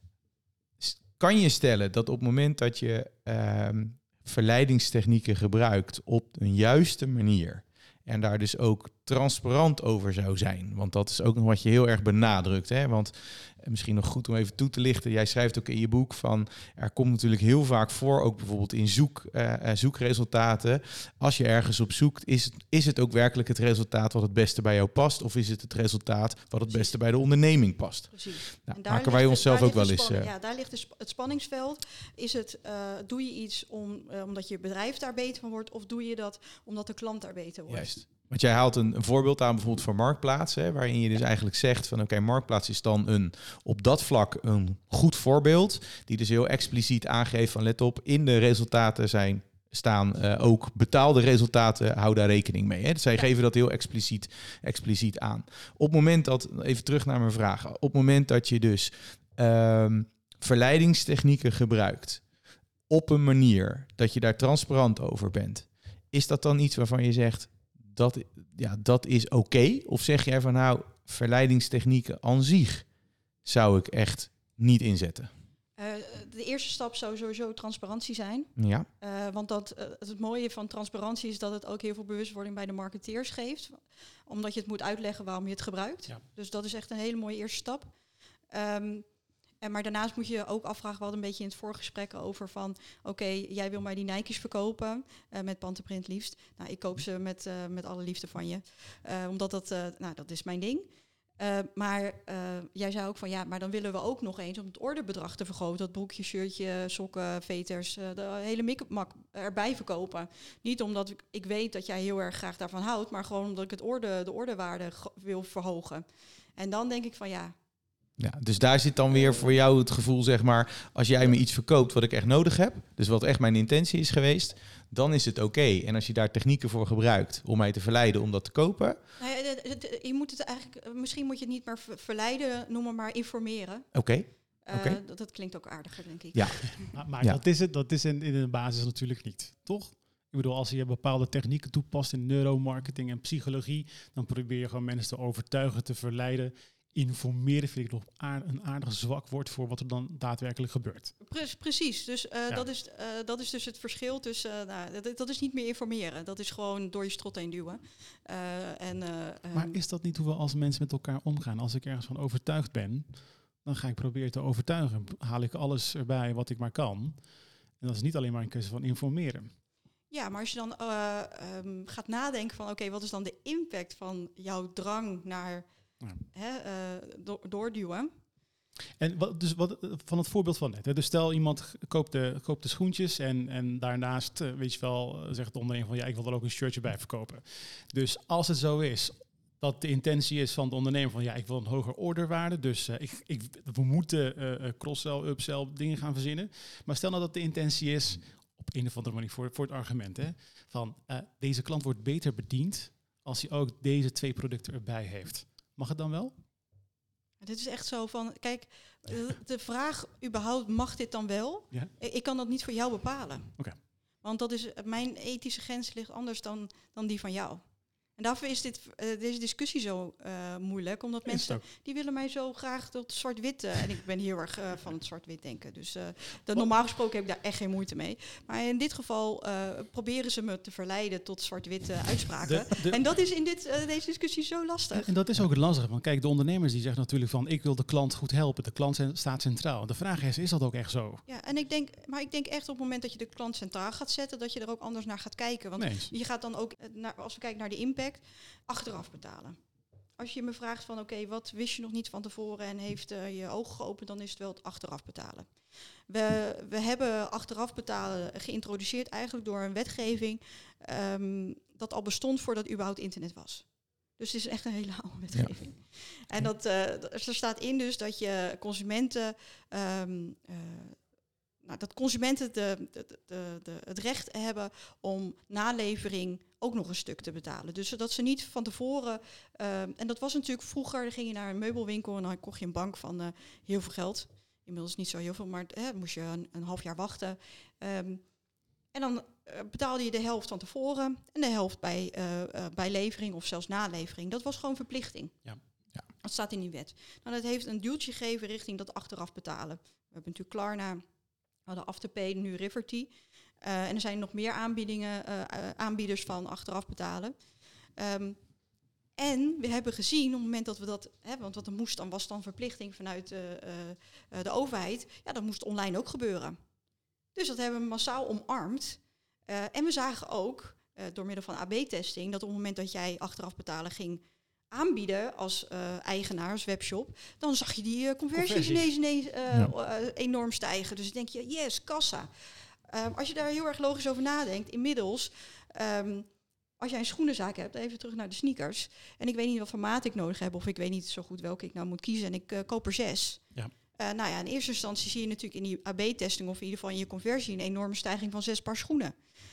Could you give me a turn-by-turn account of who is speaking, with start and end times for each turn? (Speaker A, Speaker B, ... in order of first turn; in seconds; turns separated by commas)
Speaker A: 0.8-30.3, Speaker B: 26.7-26.9, Speaker B: 28.1-38.0, Speaker A: 37.7-62.2, Speaker A: 62.9-72.8, Speaker A: 73.4-75.3, Speaker B: 75.8-87.9, Speaker A: 78.6-78.9, Speaker B: 88.5-89.0, Speaker B: 89.6-100.9, Speaker B: 101.4-116.0, Speaker B: 116.6-117.5, Speaker A: 118.2-129.0, Speaker B: 129.2-133.9, Speaker A: 133.9-135.0, Speaker B: 134.7-136.9, Speaker A: 136.3-136.6, Speaker C: 136.9-151.1, Speaker B: 151.2-159.8, Speaker C: 159.5-167.2, Speaker C: 167.8-169.5, Speaker B: 170.1-175.7, Speaker B: 176.3-178.1, Speaker C: 179.0-206.3, Speaker B: 207.4-213.5, Speaker B: 214.2-217.6, Speaker B: 218.2-235.1, Speaker C: 221.3-221.6, Speaker C: 232.4-233.0, Speaker C: 234.9-241.2, Speaker B: 241.3-249.6, Speaker C: 245.8-246.1, Speaker B: 250.2-255.5, Speaker B: 256.1-271.0, Speaker B: 271.6-288.2, Speaker B: 288.9-295.4, Speaker B: 296.2-301.0, Speaker B: 301.6-307.4, Speaker B: 308.0-308.4, Speaker B: 309.2-316.6, Speaker B: 317.3-332.3, Speaker C: 328.3-328.9, Speaker B: 332.9-336.3, Speaker B: 336.8-343.4, Speaker B: 344.0-349.1